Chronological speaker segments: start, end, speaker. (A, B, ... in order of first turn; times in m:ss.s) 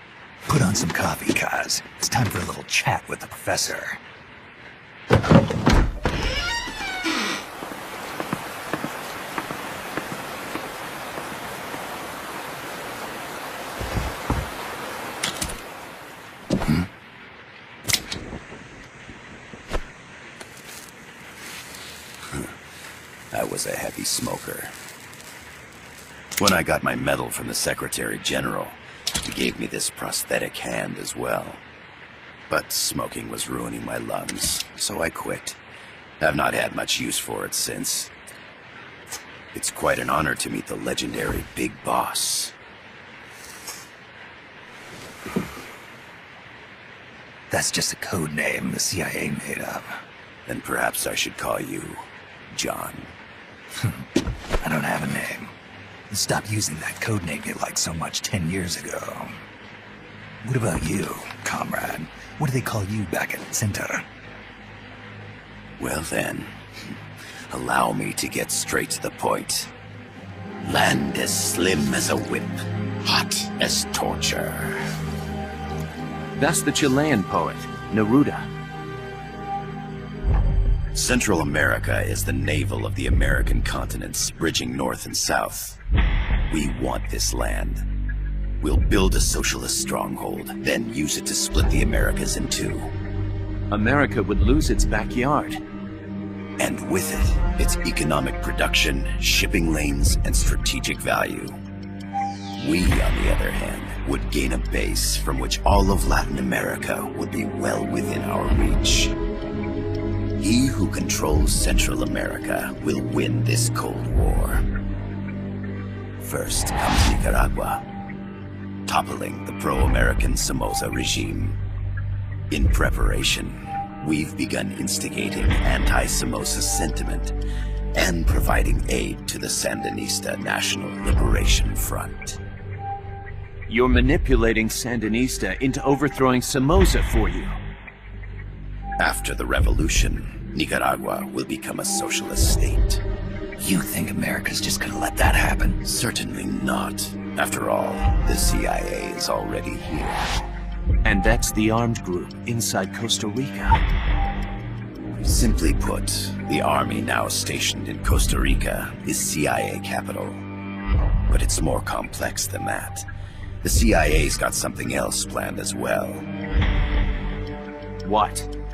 0:00.5-0:04.0 A
0:23.3-0:24.7 B
0:26.4-0:31.6 B
0:32.5-0:35.6 B
0:36.2-0:38.1 B
0:39.5-0:42.5 B
0:47.5-0:50.0 A
0:50.5-0:53.1 B
0:54.6-0:55.5 A
0:56.1-0:59.4 A
1:00.4-1:04.0 A
1:05.8-1:06.5 B
1:07.5-1:09.7 B
1:10.6-1:14.8 B
1:16.4-1:18.5 C
1:20.9-1:25.8 B
1:26.5-1:27.8 B
1:28.6-1:32.9 B
1:33.7-1:35.6 C
1:36.6-1:41.6 B
1:42.6-1:49.2 B
1:50.4-1:54.6 B
1:56.2-1:57.8 B
1:58.8-2:01.6 B
2:02.5-2:07.4 B
2:07.9-2:12.4 B
2:13.7-2:17.6 C
2:19.0-2:23.0 B
2:23.6-2:25.8 A
2:25.8-2:30.2 B
2:31.0-2:33.8 C
2:35.2-2:40.4 B
2:41.3-2:43.0 B
2:43.6-2:46.3 B
2:48.0-2:48.5 C